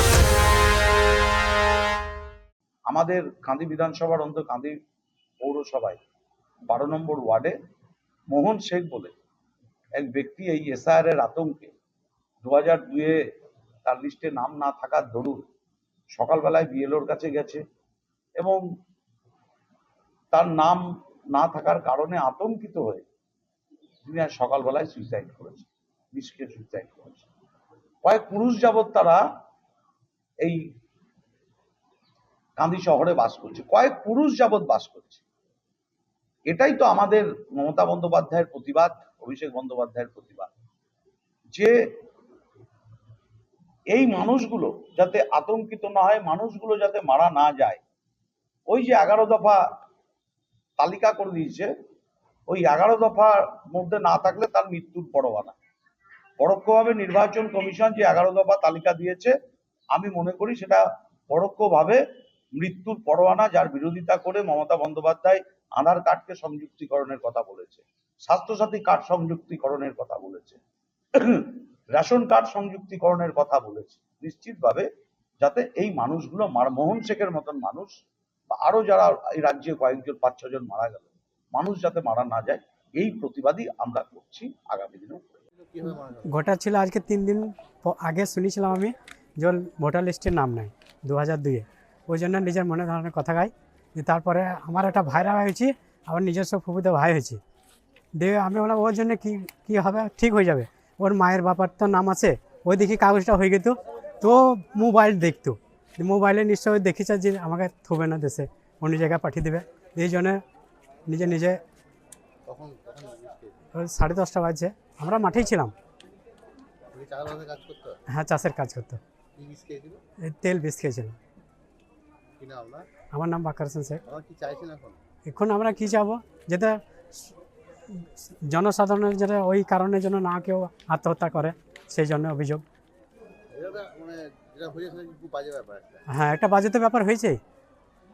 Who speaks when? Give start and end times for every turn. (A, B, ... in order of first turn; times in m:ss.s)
0:02.9-0:04.7 A
0:05.4-0:06.0 A
0:06.7-0:07.5 A
0:08.3-0:09.1 A
0:10.0-0:11.7 A
0:12.4-0:13.2 A
0:13.8-0:15.5 A
0:16.1-0:17.6 A
0:20.3-0:23.0 A
0:24.0-0:27.3 A
0:28.0-0:29.2 A
0:32.6-0:35.2 A
0:36.5-0:40.5 A
0:43.9-0:47.8 A
0:48.7-0:49.6 A
0:50.8-0:51.7 A
0:52.5-0:55.6 A
0:56.4-0:59.3 A
0:59.9-1:02.0 A
1:02.6-1:10.6 A
1:11.2-1:14.9 A
1:15.4-1:17.9 A
1:18.5-1:25.4 A
1:25.6-1:26.3 B
1:26.2-1:37.4 C
1:38.2-1:50.4 C
1:51.1-1:51.6 C
1:52.4-1:53.6 B
1:53.7-1:55.7 C
1:56.9-1:58.0 B
1:58.1-1:59.0 C
1:59.4-2:00.0 B
2:00.2-2:01.2 C
2:02.4-2:02.9 B
2:03.1-2:04.0 C
2:04.0-2:05.0 B
2:05.3-2:06.8 C
2:07.9-2:12.6 C
2:13.5-2:16.0 B
2:16.1-2:17.4 C